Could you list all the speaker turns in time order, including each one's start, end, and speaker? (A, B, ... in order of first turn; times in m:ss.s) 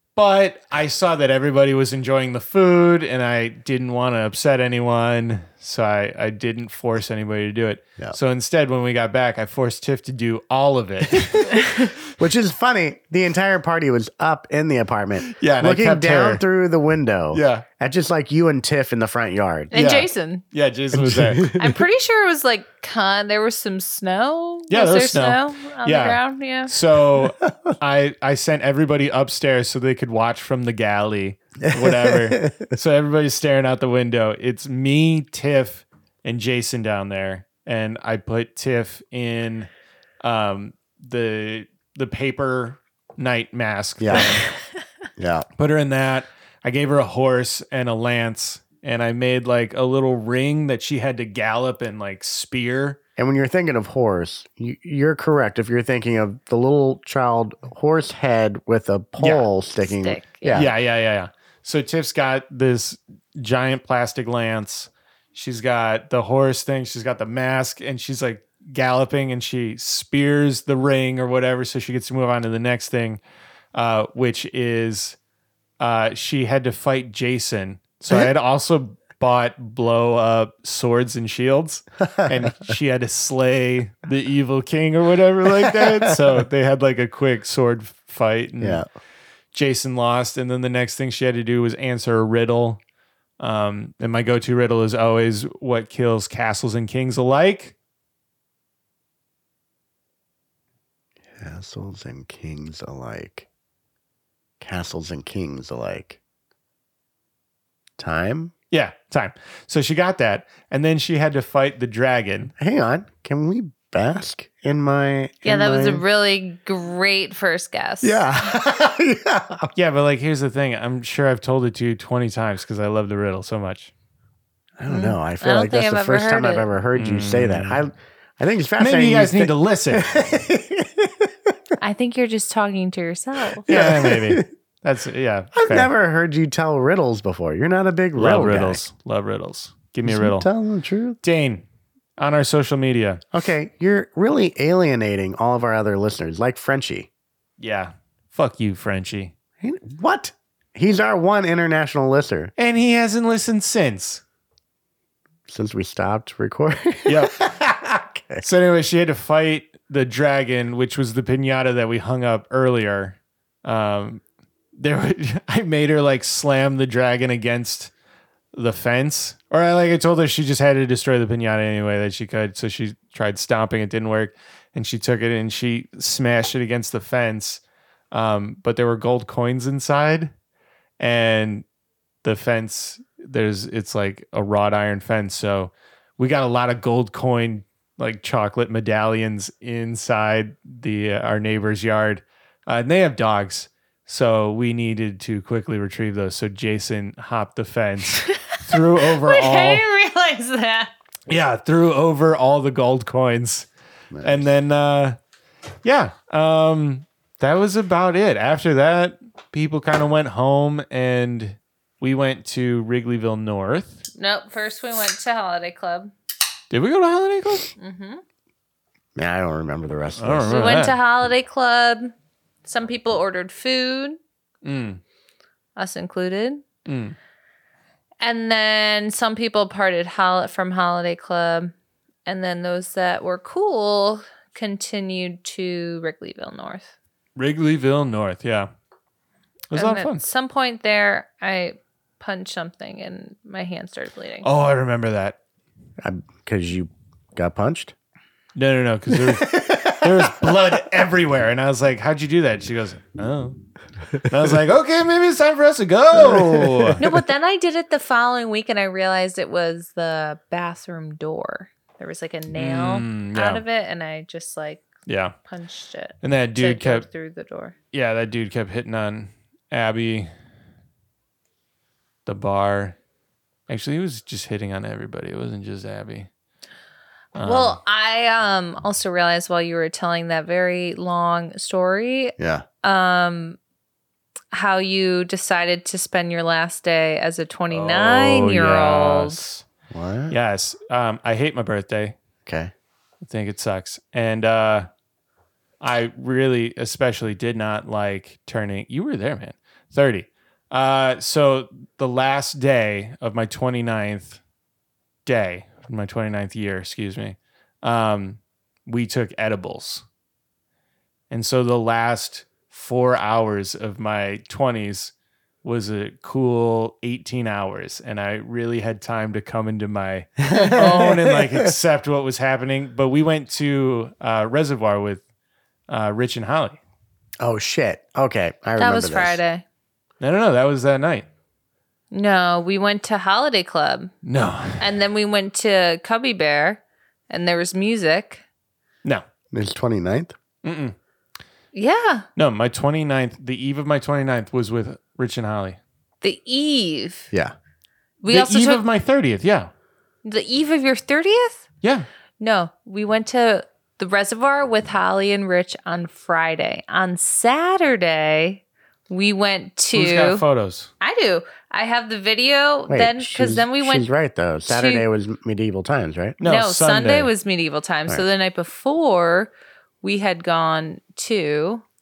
0:00.2-0:11.8 A
0:12.2-0:19.7 B
0:15.2-0:16.4 A
0:17.3-0:17.6 A
0:19.7-0:20.4 C
0:19.7-0:21.5 A
0:20.9-0:21.8 B
0:21.6-0:26.7 C
0:24.7-0:39.7 A
0:27.4-0:27.7 B
0:31.6-0:32.7 B
0:40.2-0:44.4 A
0:44.0-0:44.4 B
0:45.2-0:45.4 B
0:45.6-0:53.0 A
0:53.2-1:00.7 B
0:59.2-0:59.5 A
0:59.8-1:00.7 C
1:00.5-1:13.2 A
1:13.7-1:15.2 A
1:15.8-1:28.8 A
1:25.6-1:26.1 B
1:28.6-1:28.9 B
1:29.5-1:32.8 A
1:33.4-1:37.7 A
1:41.3-1:43.4 B
1:44.6-1:46.2 B
1:48.0-1:48.5 B
1:48.7-1:52.5 A
1:52.6-1:56.0 B
1:55.4-1:58.2 C
1:58.0-1:59.7 B
1:59.7-2:03.9 A
2:04.8-2:11.5 B
2:04.9-2:06.7 C
2:07.0-2:07.8 A
2:08.8-2:10.1 A
2:11.8-2:13.6 C
2:13.6-2:14.5 B
2:13.7-2:15.9 A
2:15.6-2:18.8 B
2:18.2-2:20.5 A
2:20.0-2:21.2 B
2:21.2-2:21.6 A
2:22.2-2:23.2 A
2:23.3-2:27.1 B
2:27.6-2:29.3 A
2:29.6-2:32.5 B
2:32.6-2:34.2 A
2:35.5-2:37.3 B
2:37.0-2:37.9 A
2:37.9-2:38.4 B
2:38.4-2:44.2 A
2:44.7-2:47.9 A
2:48.5-3:00.3 A
3:01.0-3:01.6 A
3:02.2-3:19.8 A
3:19.0-3:20.9 C
3:21.3-3:23.7 A
3:24.1-3:24.5 B
3:24.2-3:25.2 A
3:25.8-3:34.0 A
3:34.2-3:36.1 C
3:36.7-3:37.7 A
3:37.8-3:38.2 C
3:39.1-3:40.7 B
3:40.2-3:41.0 A
3:40.5-3:42.1 C
3:42.6-3:44.2 C
3:44.6-3:45.0 A
3:45.8-3:46.6 C
3:46.8-3:47.2 A
3:48.2-3:51.7 C
3:52.2-3:56.9 C
3:57.4-3:58.7 A
3:59.7-4:00.2 A
3:59.7-4:04.4 C
4:04.4-4:05.4 A
4:06.0-4:07.9 B
4:08.6-4:13.6 A
4:09.1-4:10.8 B
4:14.2-4:17.0 A
4:16.1-4:17.2 B
4:17.0-4:24.9 C
4:22.5-4:23.6 A
4:25.0-4:25.3 A
4:25.4-4:27.7 C
4:26.2-4:27.0 A
4:27.9-4:30.3 A
4:32.2-4:33.0 A
4:33.7-4:36.3 A
4:37.3-4:37.8 A
4:37.4-4:43.6 C
4:42.4-4:42.6 B
4:44.5-4:49.4 C
4:47.7-4:49.6 A
4:49.9-4:50.3 B
4:50.3-4:52.2 A
4:52.4-4:52.7 B
4:53.2-4:54.9 A
4:55.8-5:04.4 A
5:05.2-5:10.0 A
5:11.3-5:15.1 A
5:15.6-5:25.2 A
5:20.4-5:21.7 B
5:20.5-5:20.8 C
5:25.9-5:26.8 A
5:27.4-5:29.4 B
5:28.8-5:29.6 C
5:30.2-5:31.2 A
5:32.1-5:34.1 C
5:34.2-5:34.8 A
5:34.8-5:38.4 C
5:39.5-5:40.3 B
5:40.6-5:41.0 A
5:41.7-5:42.2 C
5:42.4-5:45.8 A
5:46.2-5:47.3 C
5:48.2-5:48.8 C
5:48.3-5:49.7 A
5:50.2-5:51.6 C
5:52.4-6:00.4 C
5:59.9-6:00.9 A
6:01.0-6:04.0 C
6:02.9-6:06.4 B
6:04.7-6:05.0 C
6:06.4-6:07.3 A
6:06.4-6:11.8 C